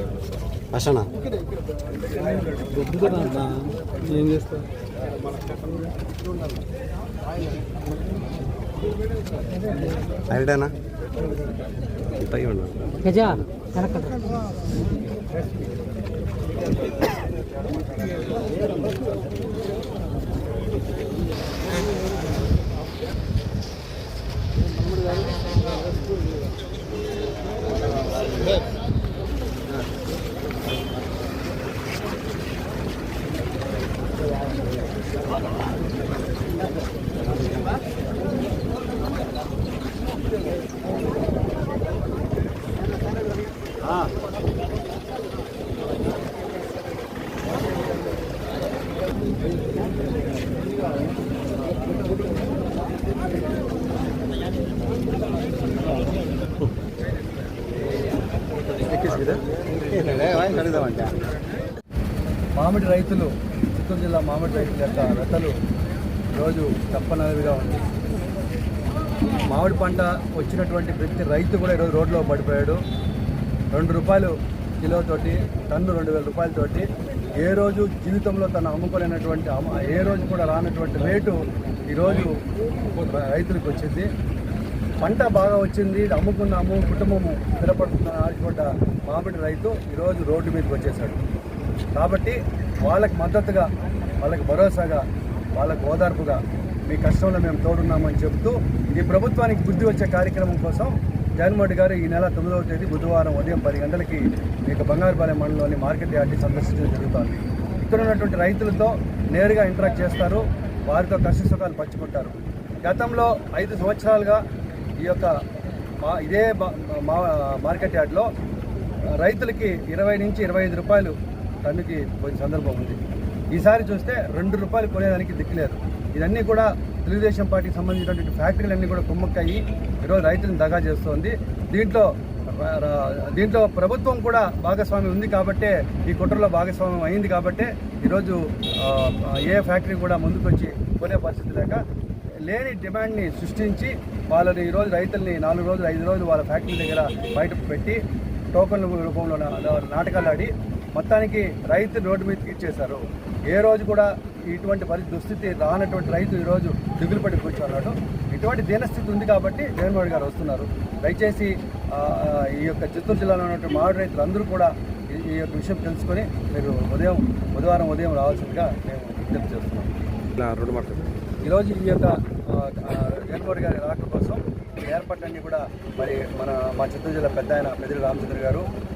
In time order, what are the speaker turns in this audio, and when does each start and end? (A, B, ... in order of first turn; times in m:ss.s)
0:00.7-0:01.1 A
0:02.4-0:04.7 B
0:10.3-0:10.7 A
0:12.1-0:13.4 A
0:13.1-0:14.1 B
0:43.8-0:44.1 C
0:58.8-1:01.2 A
1:02.6-1:05.5 C
1:06.4-1:07.9 C
1:09.5-1:12.8 C
1:13.7-1:16.9 C
1:17.4-1:21.4 C
1:21.9-1:22.4 C
1:22.9-1:24.1 C
1:25.0-1:31.2 C
1:32.0-1:33.7 C
1:34.2-1:54.4 C
1:55.0-1:55.3 C
1:56.0-1:58.3 C
1:59.2-2:03.0 C
2:03.5-2:21.8 C
2:22.5-2:28.0 C
2:28.5-2:49.9 C
2:50.5-2:50.8 A
2:51.4-2:58.7 C